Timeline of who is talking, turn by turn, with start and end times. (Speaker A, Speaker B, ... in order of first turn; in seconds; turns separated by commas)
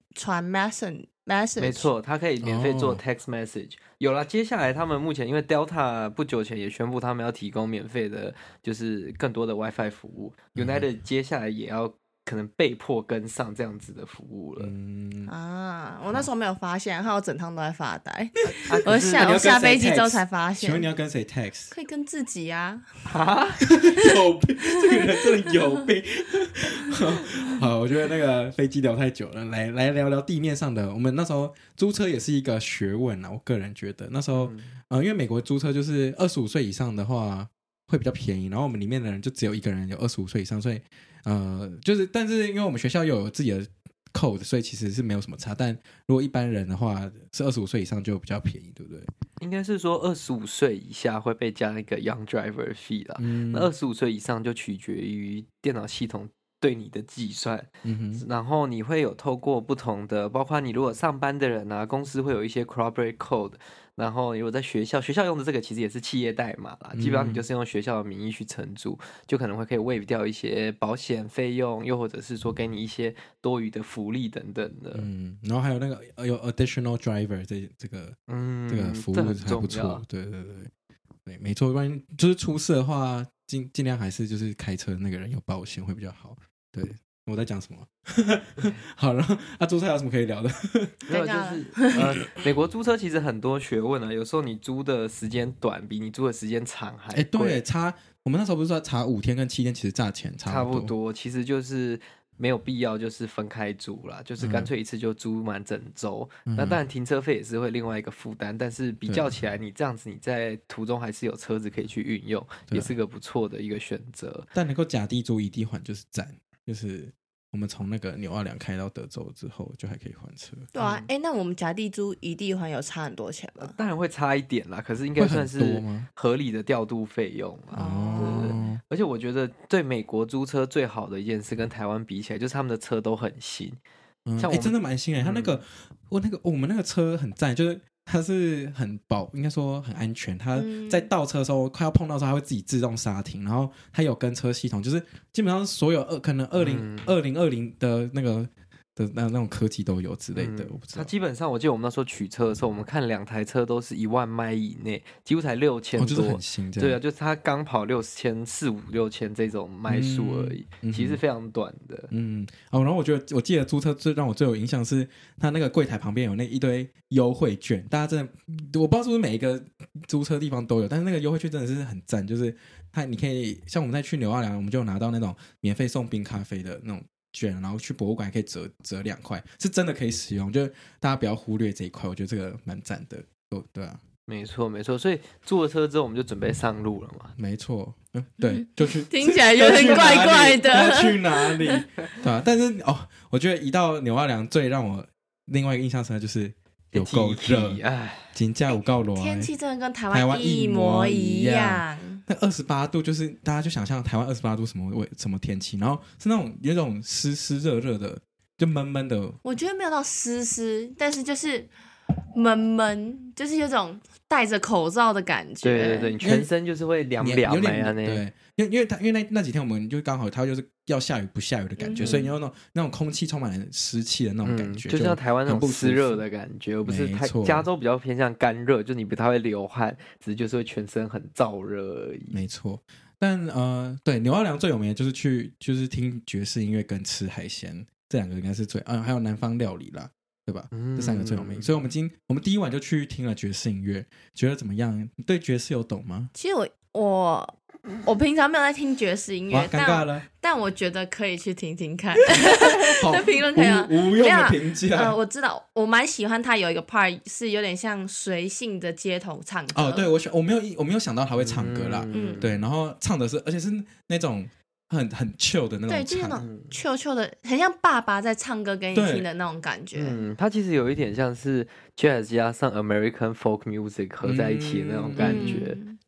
Speaker A: 0.1-1.9, Speaker B: 1.6-14.7, Speaker C: 2.4-3.0, Speaker C: 10.6-10.8, Speaker C: 14.6-15.3, Speaker A: 15.3-20.9, Speaker C: 18.4-21.7, Speaker B: 18.6-19.7, Speaker A: 21.7-22.9, Speaker B: 23.1-23.6, Speaker C: 23.6-49.1, Speaker B: 34.3-34.7, Speaker B: 49.4-75.1, Speaker C: 53.2-53.7, Speaker C: 57.8-58.2, Speaker C: 66.9-67.5, Speaker C: 74.9-78.2, Speaker B: 78.3-80.0, Speaker C: 78.7-80.7, Speaker C: 81.2-91.0, Speaker B: 91.1-97.6, Speaker A: 91.1-92.1, Speaker C: 97.1-100.9, Speaker B: 100.5-114.5, Speaker C: 104.4-104.7, Speaker C: 106.5-106.8, Speaker C: 114.5-120.7, Speaker A: 120.7-123.8, Speaker B: 120.8-121.1, Speaker B: 123.6-133.8, Speaker C: 125.2-126.1, Speaker C: 127.7-128.8, Speaker A: 127.8-128.6, Speaker C: 134.2-151.1, Speaker B: 134.4-135.6, Speaker A: 140.5-141.1, Speaker B: 146.5-147.1, Speaker B: 150.3-162.1, Speaker C: 155.9-157.0, Speaker C: 159.9-161.2, Speaker C: 162.1-184.0, Speaker B: 184.3-187.3, Speaker C: 187.3-197.8, Speaker A: 188.4-191.8, Speaker B: 189.7-190.5, Speaker B: 196.9-198.3, Speaker C: 198.3-199.5, Speaker A: 199.1-202.2, Speaker C: 200.1-209.4, Speaker A: 209.4-211.7, Speaker A: 212.3-216.1, Speaker B: 215.6-218.2, Speaker C: 216.2-216.5, Speaker C: 217.2-226.2, Speaker A: 221.8-222.3, Speaker B: 222.0-222.3, Speaker B: 224.4-232.4, Speaker C: 226.8-227.7, Speaker C: 232.3-246.3, Speaker B: 240.7-241.7, Speaker A: 246.3-260.1, Speaker C: 249.5-250.2, Speaker C: 252.4-255.2, Speaker C: 259.7-266.4, Speaker B: 261.4-262.6, Speaker A: 262.1-262.5, Speaker A: 265.9-270.2, Speaker B: 266.4-266.7, Speaker C: 268.9-269.2, Speaker B: 269.9-275.8, Speaker C: 274.2-275.6, Speaker A: 275.2-276.0